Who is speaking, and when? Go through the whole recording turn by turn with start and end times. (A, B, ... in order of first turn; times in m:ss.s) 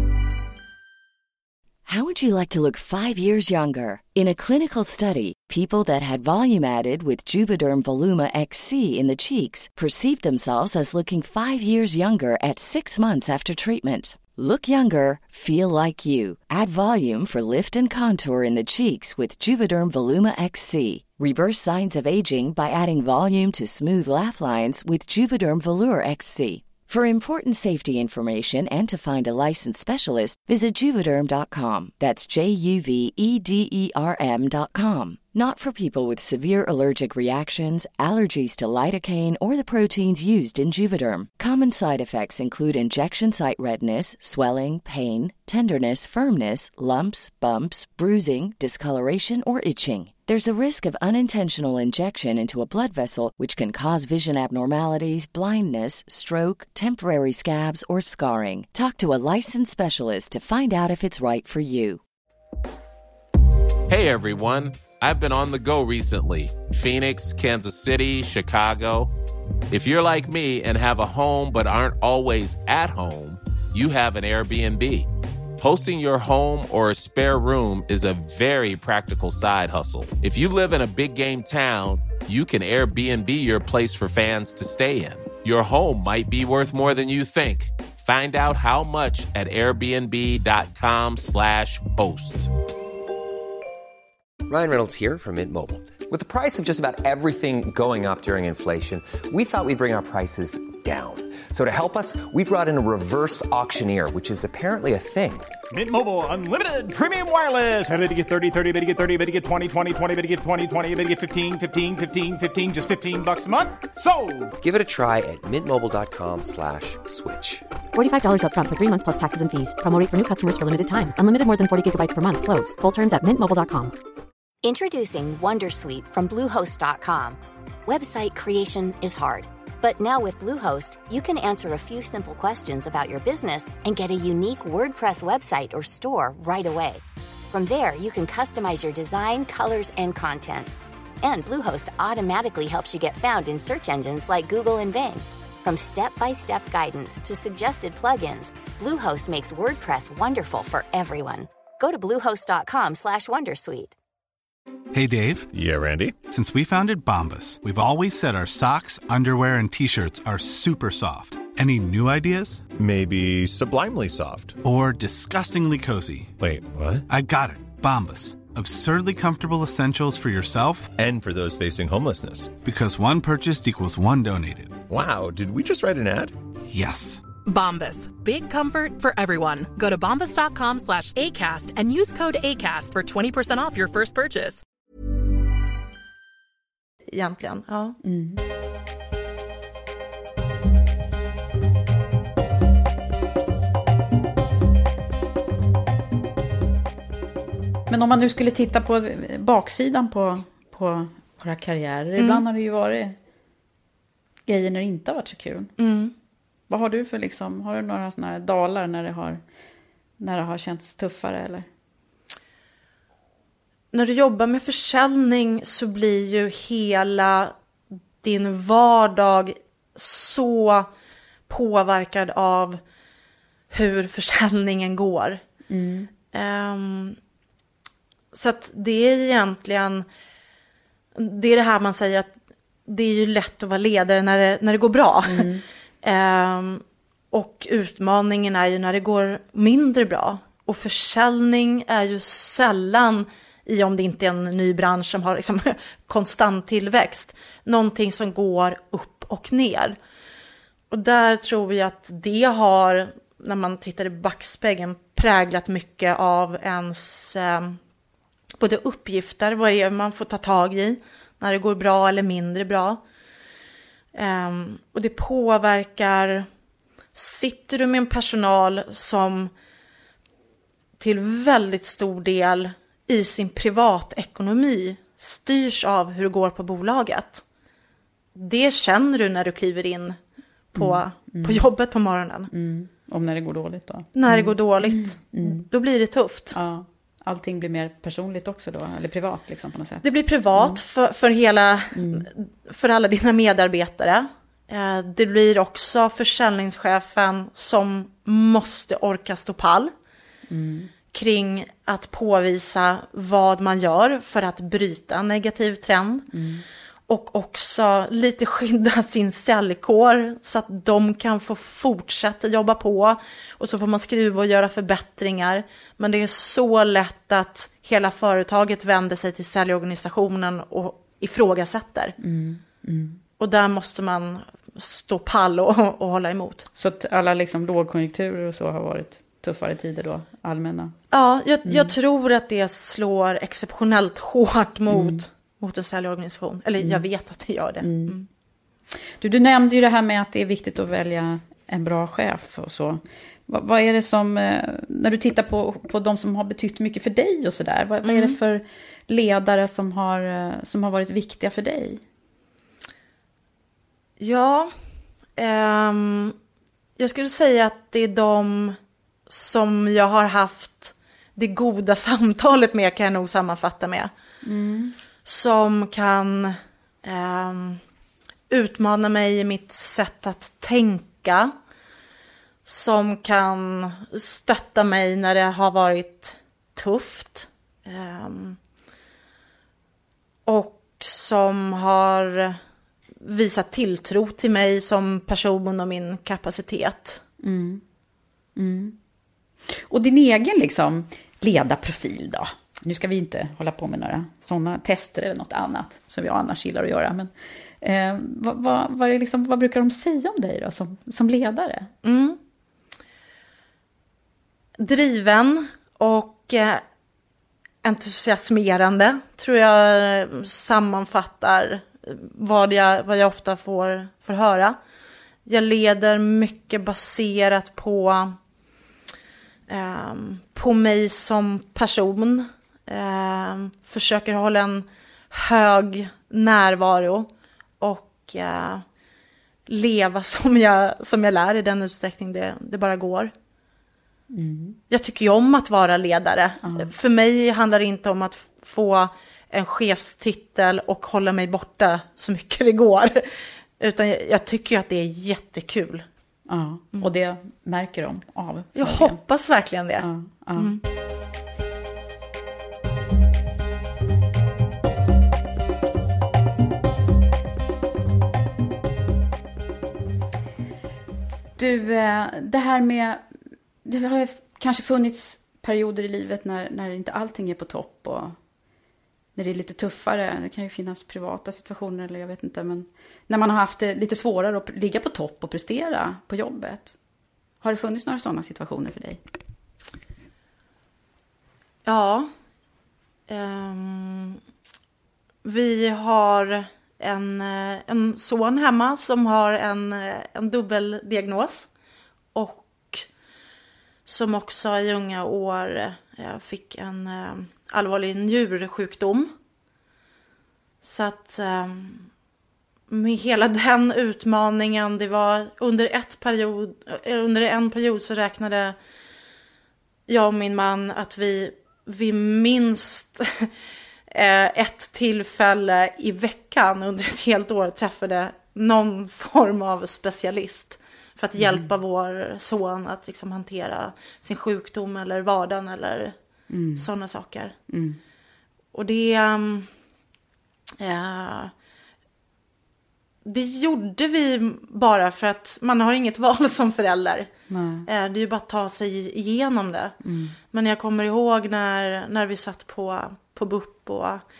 0:01.8-1:02.0 A
1:03.9-1:09.1 B
1:09.7-1:15.1 B
1:15.6-1:32.5 B
1:34.5-1:45.5 C
1:45.7-1:54.5 D
1:54.6-1:57.6 C
1:57.9-2:03.9 E
2:04.6-2:20.7 F
2:21.2-2:33.9 F
2:34.9-2:35.5 G
2:35.5-2:36.1 H
2:36.3-2:42.6 G
2:42.8-2:44.6 H
2:44.6-2:46.3 G
2:46.4-2:47.0 H
2:47.1-2:51.0 G
2:51.0-2:52.5 H
2:52.6-2:54.8 G
2:54.9-2:56.3 H
2:56.7-2:57.2 G
2:57.4-3:04.6 I
3:07.1-3:08.0 J
3:08.0-3:08.4 K
3:17.9-3:23.2 K
3:22.2-3:22.4 J
3:24.5-3:25.7 K
3:25.8-3:26.1 J
3:26.7-3:29.4 K
3:30.2-3:31.7 K
3:33.9-3:37.5 J
3:38.2-3:40.9 J
3:41.5-3:42.8 J
3:43.7-3:45.4 J
3:45.7-3:46.1 K
3:46.3-3:47.2 J
3:48.3-3:50.0 J
3:51.1-3:52.3 J
3:52.8-3:55.5 J
3:55.3-3:55.6 K
3:56.0-4:10.0 J
4:10.9-4:17.8 J
4:18.6-4:23.0 J
4:24.1-4:26.5 J
4:27.1-4:29.5 J
4:31.0-4:37.4 J
4:38.3-4:40.2 J
4:40.7-4:42.5 J
4:40.8-4:41.7 K
4:42.5-4:45.7 K
4:44.1-4:46.6 J
4:46.5-4:50.8 K
4:50.0-4:59.9 J
4:51.9-4:52.3 K
5:00.5-5:00.9 K
5:01.1-5:06.3 J
5:06.3-5:06.6 K
5:07.1-5:22.2 J
5:22.2-5:23.2 K
5:23.4-5:26.7 J
5:26.8-5:30.9 K
5:31.1-5:38.2 J
5:31.6-5:31.9 K
5:34.9-5:35.2 K
5:37.8-5:38.2 K
5:39.2-5:52.0 K
5:48.0-5:48.4 J
5:54.2-5:54.7 J
5:55.4-5:56.4 J
5:57.0-5:58.8 J
5:59.3-6:04.1 J
6:04.4-6:04.9 K
6:05.2-6:07.8 J
6:08.5-6:11.5 J
6:12.6-6:18.6 J
6:20.4-6:22.6 J
6:23.2-6:27.2 J
6:27.4-6:27.8 K
6:28.6-6:29.0 K
6:29.7-6:37.3 K
6:37.8-6:41.9 K
6:42.0-6:42.4 J
6:44.8-6:46.8 J
6:47.8-6:54.8 J
6:55.4-6:58.4 J
6:59.7-7:08.8 J
7:09.6-7:13.3 J
7:14.3-7:14.8 K
7:14.9-7:26.0 J
7:16.6-7:16.9 K
7:26.5-7:29.2 K
7:28.7-7:30.8 J
7:30.0-7:30.7 K
7:41.6-7:43.2 K
7:43.8-7:48.4 K
7:49.4-7:56.9 K
7:57.6-7:59.2 K
8:01.8-8:02.3 J
8:03.3-8:04.4 J
8:05.4-8:11.7 J
8:12.3-8:13.1 J
8:14.0-8:19.3 J
8:20.8-8:22.1 J
8:22.9-8:28.8 J
8:30.1-8:33.5 J
8:34.1-8:46.2 J
8:41.4-8:41.7 K
8:46.5-8:46.9 K
8:46.8-8:47.6 J
8:47.7-8:48.0 K
8:48.7-8:49.7 J
8:50.8-8:51.5 J
8:53.2-8:57.3 J
8:57.5-8:57.9 K
8:57.8-9:00.0 J
9:00.0-9:00.4 K
9:00.5-9:04.2 J